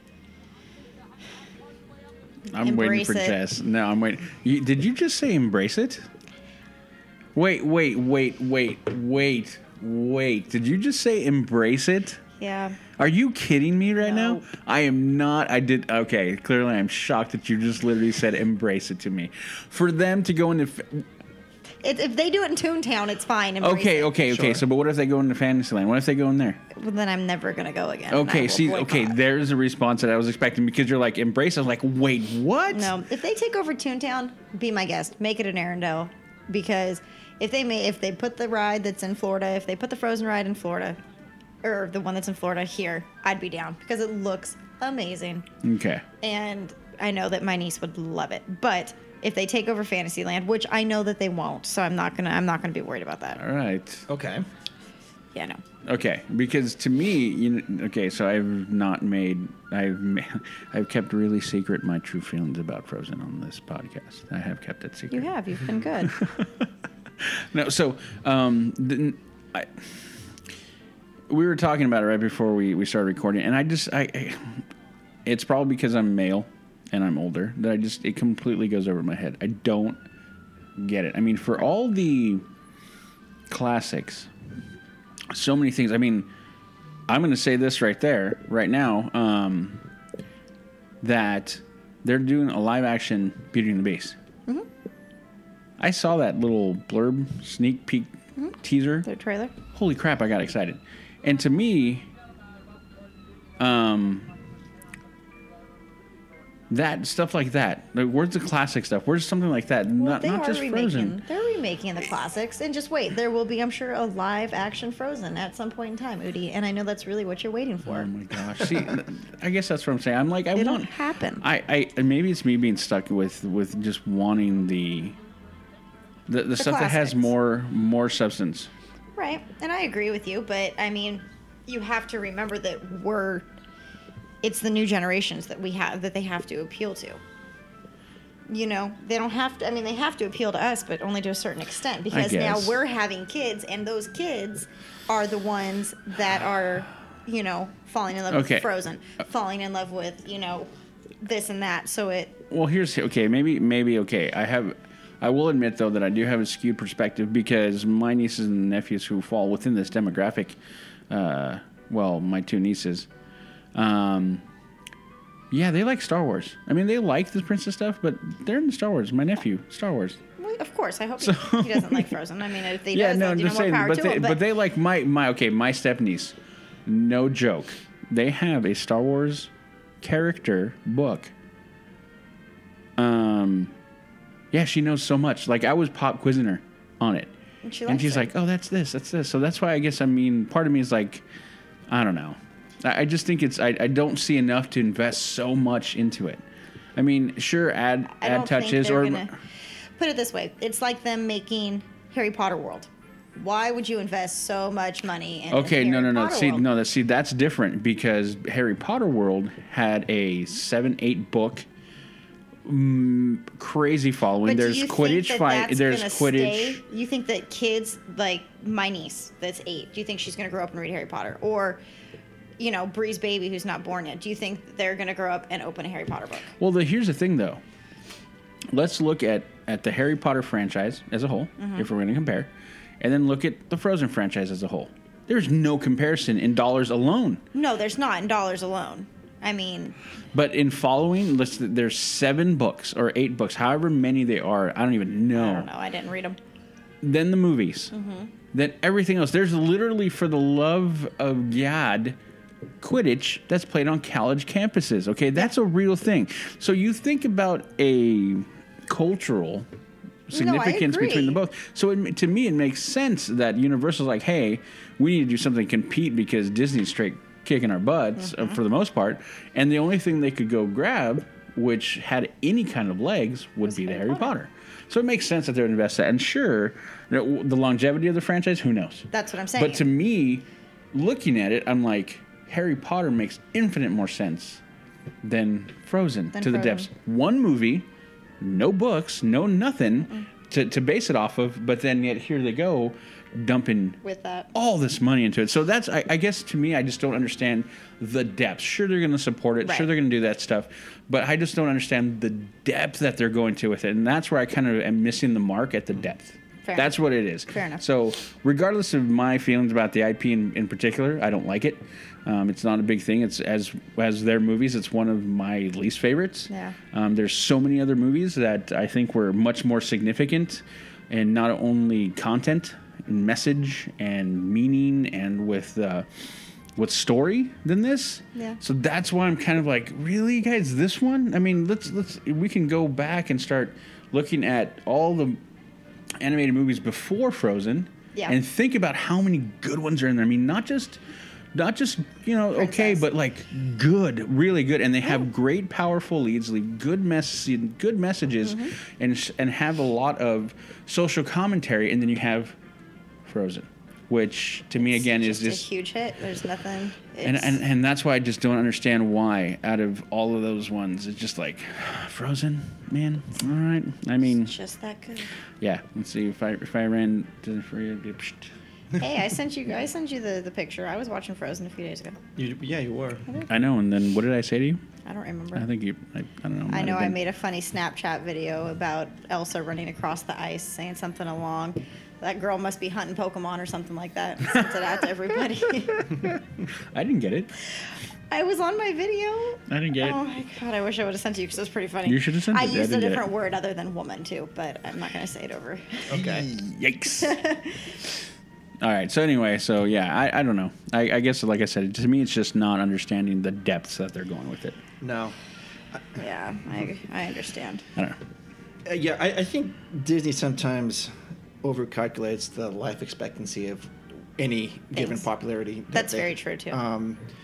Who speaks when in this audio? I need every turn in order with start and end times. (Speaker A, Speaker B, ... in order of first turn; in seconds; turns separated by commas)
Speaker A: 2.5-6.1, Speaker B: 2.5-3.4, Speaker A: 7.3-12.2, Speaker B: 12.4-12.8, Speaker A: 13.0-21.1, Speaker B: 14.0-14.4, Speaker B: 21.8-24.1, Speaker A: 23.6-26.6, Speaker C: 24.3-24.6, Speaker B: 26.7-29.2, Speaker A: 28.1-32.9, Speaker B: 32.7-41.0, Speaker B: 41.6-45.5, Speaker A: 45.6-46.0, Speaker B: 46.2-53.4, Speaker A: 53.4-54.1, Speaker C: 54.1-54.5, Speaker B: 55.3-55.6, Speaker A: 55.8-65.3, Speaker B: 65.1-66.1, Speaker A: 66.0-70.2, Speaker A: 71.3-74.6, Speaker A: 75.2-80.0, Speaker A: 80.8-82.4, Speaker A: 83.5-84.3, Speaker A: 85.3-86.3, Speaker A: 87.1-89.8, Speaker A: 91.0-94.2, Speaker A: 95.8-99.1, Speaker B: 98.3-99.5, Speaker A: 99.7-102.1, Speaker A: 103.6-104.3, Speaker A: 106.7-111.2, Speaker B: 110.0-118.1, Speaker A: 117.8-120.9, Speaker B: 120.5-121.5, Speaker A: 121.4-125.2, Speaker A: 126.3-128.7, Speaker B: 126.6-127.3, Speaker B: 129.1-133.5, Speaker B: 134.4-137.2, Speaker B: 138.5-150.7, Speaker A: 142.1-142.8, Speaker A: 148.3-148.7, Speaker B: 151.2-152.4, Speaker A: 152.5-160.6, Speaker A: 161.1-163.1, Speaker A: 163.7-164.4, Speaker A: 165.5-170.2, Speaker B: 170.4-174.4, Speaker A: 171.2-172.1, Speaker A: 172.9-181.3, Speaker A: 183.0-183.7, Speaker A: 184.5-187.3, Speaker B: 187.6-188.3, Speaker A: 187.9-191.2, Speaker A: 191.9-196.4, Speaker A: 196.9-199.3, Speaker B: 198.1-199.4, Speaker B: 200.0-206.7, Speaker A: 205.5-211.7, Speaker A: 212.6-216.8, Speaker B: 214.4-221.8, Speaker B: 222.6-226.5, Speaker A: 226.6-227.6, Speaker A: 228.7-237.4, Speaker B: 231.6-231.9, Speaker B: 237.5-239.9, Speaker A: 240.3-245.7, Speaker B: 245.3-246.4, Speaker A: 247.0-247.9, Speaker B: 247.9-248.3, Speaker A: 248.5-252.2, Speaker A: 252.8-259.7, Speaker A: 260.3-284.6, Speaker B: 260.3-261.4, Speaker B: 268.2-268.6, Speaker B: 273.7-274.3, Speaker B: 279.1-279.9, Speaker A: 285.2-287.9, Speaker B: 286.3-286.9, Speaker A: 288.4-294.0, Speaker B: 294.0-294.5, Speaker A: 294.5-326.1, Speaker B: 299.6-299.9, Speaker B: 306.6-307.8, Speaker B: 316.5-316.8, Speaker A: 326.7-335.4, Speaker A: 336.2-341.0, Speaker A: 341.5-352.6, Speaker B: 342.5-343.1, Speaker B: 348.4-348.7, Speaker A: 353.2-355.6, Speaker B: 354.8-357.6, Speaker A: 357.2-364.5, Speaker B: 364.3-365.3, Speaker A: 365.6-368.5, Speaker B: 369.0-372.2, Speaker C: 372.4-373.3, Speaker A: 373.5-374.8, Speaker B: 375.0-375.7, Speaker A: 375.5-377.2, Speaker B: 376.7-386.1, Speaker A: 385.9-387.5, Speaker B: 388.3-396.3, Speaker A: 389.7-390.2, Speaker A: 392.0-393.2, Speaker C: 396.1-396.5, Speaker A: 396.1-397.4, Speaker B: 397.2-397.9, Speaker A: 398.8-404.8, Speaker C: 405.0-405.4, Speaker B: 406.2-407.8, Speaker C: 408.8-417.2, Speaker B: 414.9-415.3, Speaker B: 415.9-416.8